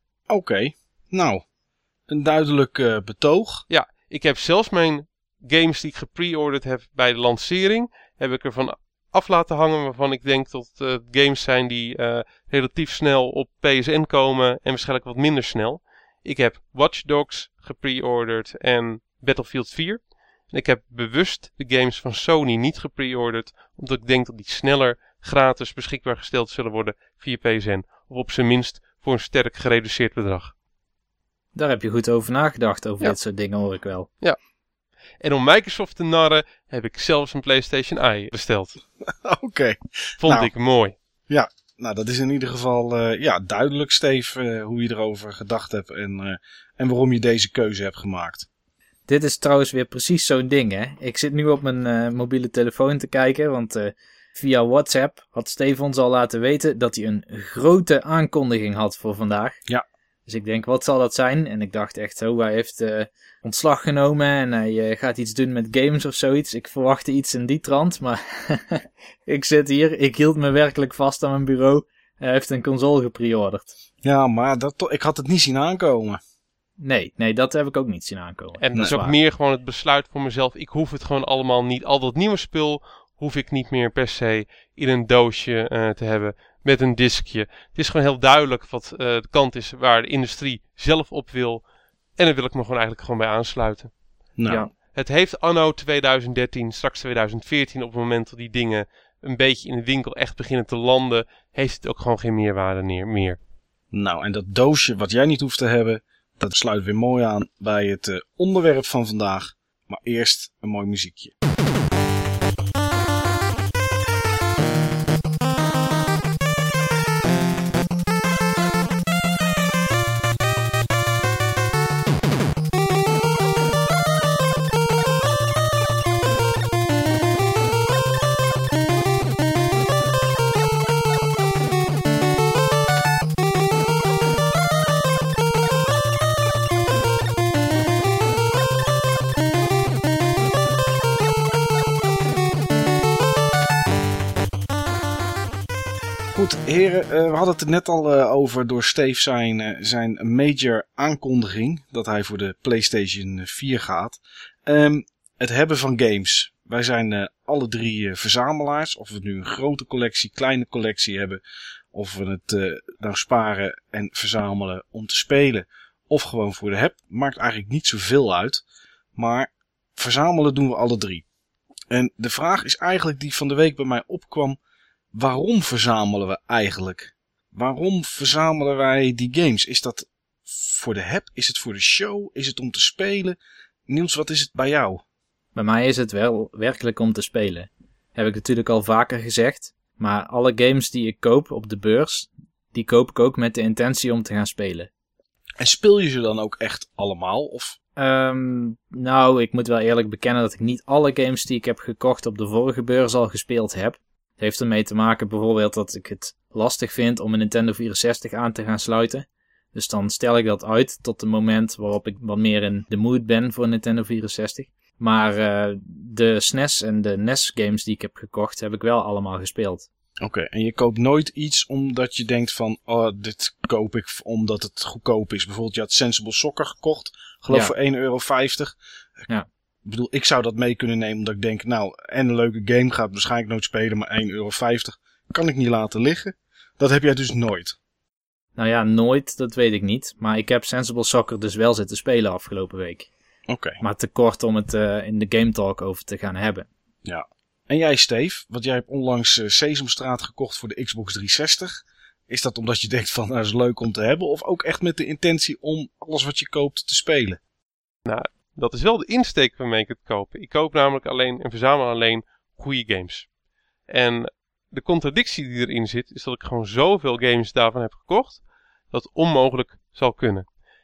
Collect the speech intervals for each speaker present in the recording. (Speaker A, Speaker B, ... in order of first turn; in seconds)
Speaker A: 0.3-1.4, 2.1-3.6, 39.1-40.5, 41.3-48.5, 74.0-76.2, 94.4-94.7, 103.9-111.3, 146.3-161.4, 161.9-168.6, 169.2-171.2, 171.9-174.6, 175.1-185.0, 195.6-197.8, 220.2-228.8, 229.8-237.8, 243.5-243.8, 247.0-257.4
Speaker B: 3.7-30.5, 35.2-38.8, 40.2-40.9, 78.6-91.6, 92.2-93.9, 94.9-103.4, 258.0-263.3, 263.9-270.5
Speaker C: 31.5-34.1, 49.1-59.6, 60.3-73.7, 76.8-79.1, 185.6-194.9, 198.0-219.9, 238.6-243.1, 243.8-246.7